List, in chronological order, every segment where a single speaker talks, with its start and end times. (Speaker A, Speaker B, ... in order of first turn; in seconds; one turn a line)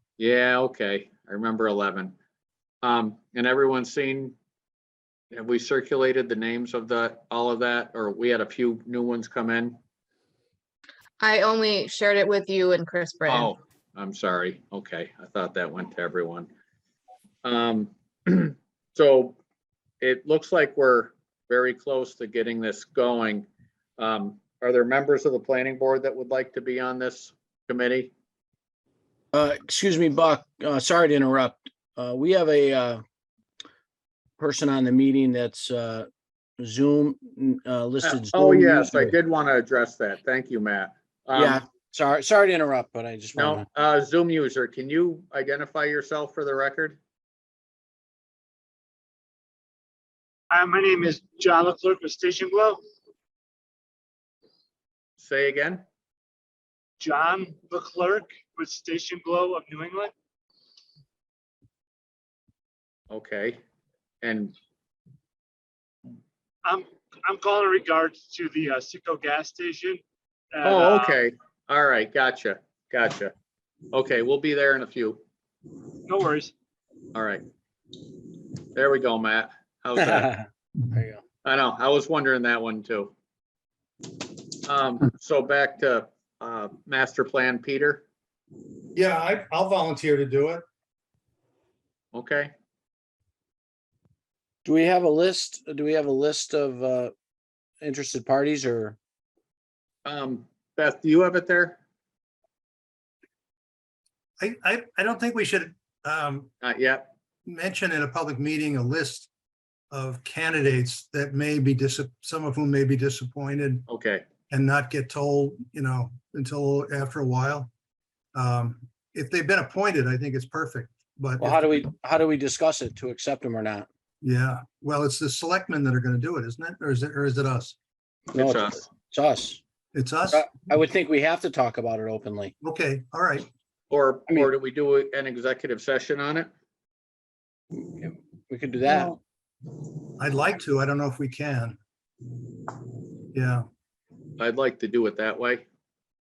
Speaker A: 0.2-2.1
Speaker A: 2.8-4.3
Speaker A: 5.3-9.8
Speaker B: 11.2-13.5
Speaker A: 13.2-16.5
Speaker A: 17.4-19.4
Speaker A: 20.0-23.5
Speaker A: 24.0-28.1
Speaker C: 29.3-33.0
Speaker C: 34.4-36.0
Speaker C: 36.6-39.1
Speaker A: 38.0-41.7
Speaker C: 41.4-43.6
Speaker A: 43.3-47.0
Speaker D: 50.5-52.8
Speaker A: 55.2-55.8
Speaker D: 57.0-60.1
Speaker A: 63.1-63.6
Speaker A: 64.2-64.5
Speaker D: 66.6-70.0
Speaker D: 70.5-71.2
Speaker A: 70.6-73.3
Speaker A: 73.9-75.2
Speaker D: 76.0-76.5
Speaker A: 77.1-77.4
Speaker A: 78.7-80.4
Speaker C: 80.0-81.2
Speaker A: 81.4-83.1
Speaker A: 84.6-88.0
Speaker E: 88.9-90.6
Speaker A: 92.1-92.5
Speaker C: 94.7-97.1
Speaker C: 97.8-98.9
Speaker A: 100.0-101.8
Speaker E: 104.4-106.5
Speaker A: 106.6-107.1
Speaker E: 107.5-109.3
Speaker E: 109.9-113.8
Speaker A: 113.9-114.2
Speaker E: 114.5-117.7
Speaker E: 118.3-121.7
Speaker C: 121.4-123.8
Speaker E: 124.2-127.8
Speaker A: 128.3-128.9
Speaker C: 128.3-129.6
Speaker E: 129.9-130.5
Speaker C: 130.3-132.5
Speaker E: 132.6-133.5
Speaker A: 133.9-136.5
Speaker C: 138.0-139.1
Speaker E: 140.2-141.8
Speaker E: 143.3-143.7
Speaker A: 144.4-145.6